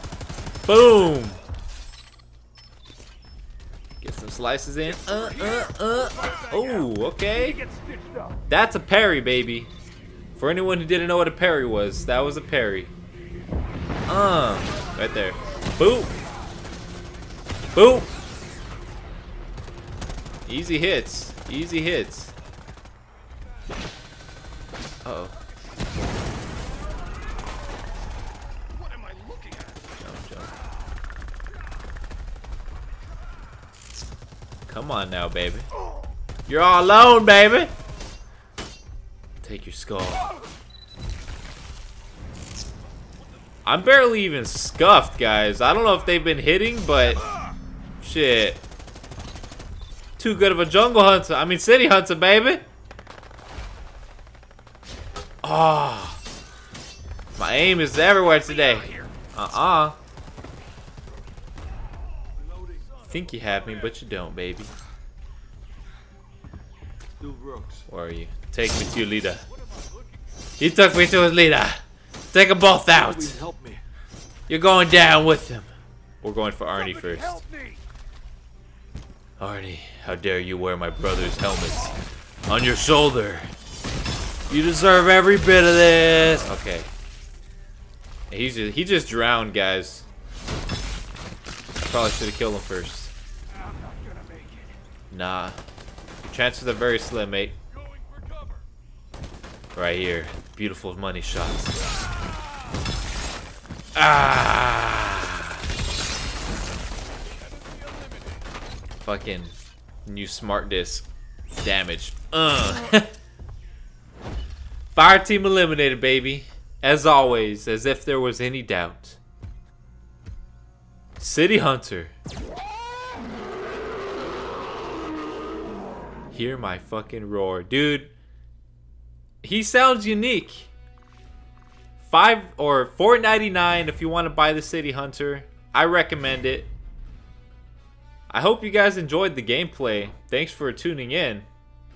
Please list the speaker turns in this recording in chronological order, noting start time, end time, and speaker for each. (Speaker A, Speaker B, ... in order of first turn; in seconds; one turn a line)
Speaker A: 0.7-1.4
Speaker A: 4.0-7.6
Speaker B: 7.6-8.3
Speaker A: 8.5-9.7
Speaker A: 10.3-12.9
Speaker A: 14.1-16.1
Speaker A: 17.7-18.1
Speaker A: 20.4-22.3
Speaker A: 25.0-25.4
Speaker B: 28.8-29.8
Speaker A: 30.0-30.6
Speaker A: 34.7-35.7
Speaker A: 36.5-37.7
Speaker A: 39.4-40.3
Speaker A: 43.6-47.2
Speaker A: 48.0-48.6
Speaker A: 50.2-52.6
Speaker A: 55.4-56.2
Speaker A: 57.4-60.0
Speaker A: 63.1-64.7
Speaker B: 67.2-67.8
Speaker A: 67.9-69.4
Speaker A: 70.6-73.4
Speaker B: 73.3-73.8
Speaker A: 74.5-75.7
Speaker A: 76.2-77.4
Speaker B: 77.4-77.8
Speaker A: 79.4-82.0
Speaker A: 82.5-83.5
Speaker A: 84.5-86.9
Speaker A: 88.3-90.1
Speaker A: 91.8-93.1
Speaker A: 95.1-95.6
Speaker A: 96.2-97.6
Speaker B: 97.9-98.6
Speaker A: 99.7-101.8
Speaker A: 103.9-105.6
Speaker B: 107.6-108.3
Speaker A: 109.0-111.0
Speaker A: 111.6-113.1
Speaker A: 114.9-119.2
Speaker A: 121.2-122.1
Speaker A: 126.3-128.1
Speaker A: 129.4-130.7
Speaker A: 132.0-136.7
Speaker A: 138.3-141.5